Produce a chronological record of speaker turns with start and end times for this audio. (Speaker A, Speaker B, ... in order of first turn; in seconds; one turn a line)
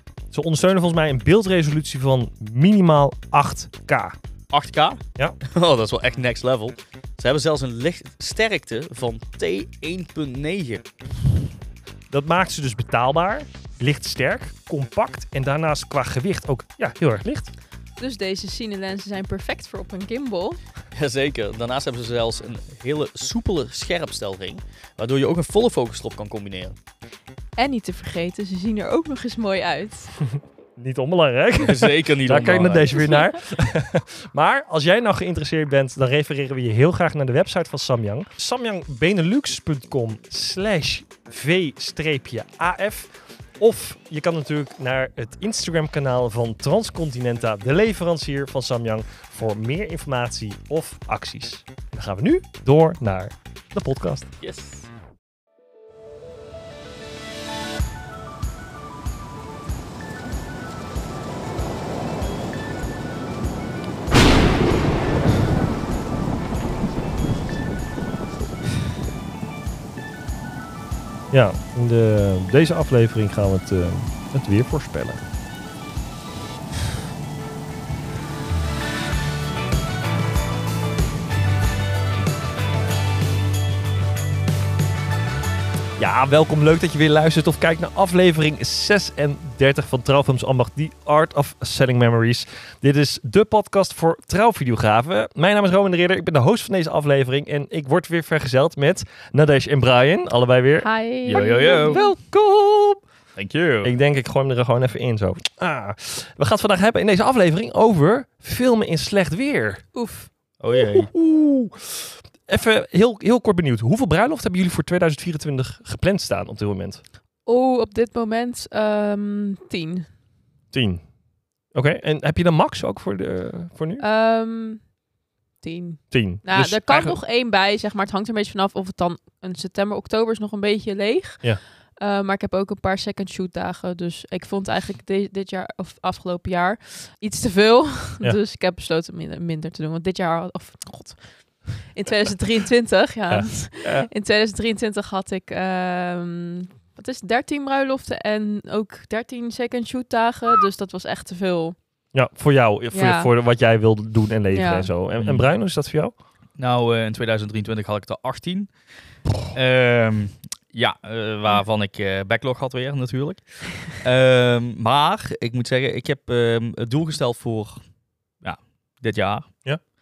Speaker A: 0.3-4.2
Speaker B: 4.5-10.9
Speaker A: 12.1-17.5
Speaker C: 18.0-20.6
Speaker B: 20.9-26.8
Speaker C: 27.6-30.1
Speaker A: 30.8-54.3
Speaker B: 31.6-33.3
Speaker B: 54.4-54.9
Speaker A: 71.3-75.2
Speaker A: 86.0-103.0
Speaker C: 100.8-102.1
Speaker B: 101.3-102.0
Speaker B: 103.3-103.9
Speaker A: 103.8-109.8
Speaker C: 109.9-110.3
Speaker B: 110.6-111.1
Speaker A: 110.7-117.0
Speaker C: 117.5-120.1
Speaker A: 120.7-121.0
Speaker A: 121.7-124.0
Speaker C: 124.0-124.8
Speaker C: 125.6-151.8
Speaker A: 126.1-127.2
Speaker A: 143.3-144.1
Speaker A: 152.1-156.1
Speaker C: 152.9-153.3
Speaker C: 154.5-154.9
Speaker B: 155.2-155.5
Speaker B: 156.6-158.7
Speaker B: 159.5-167.8
Speaker B: 168.4-169.6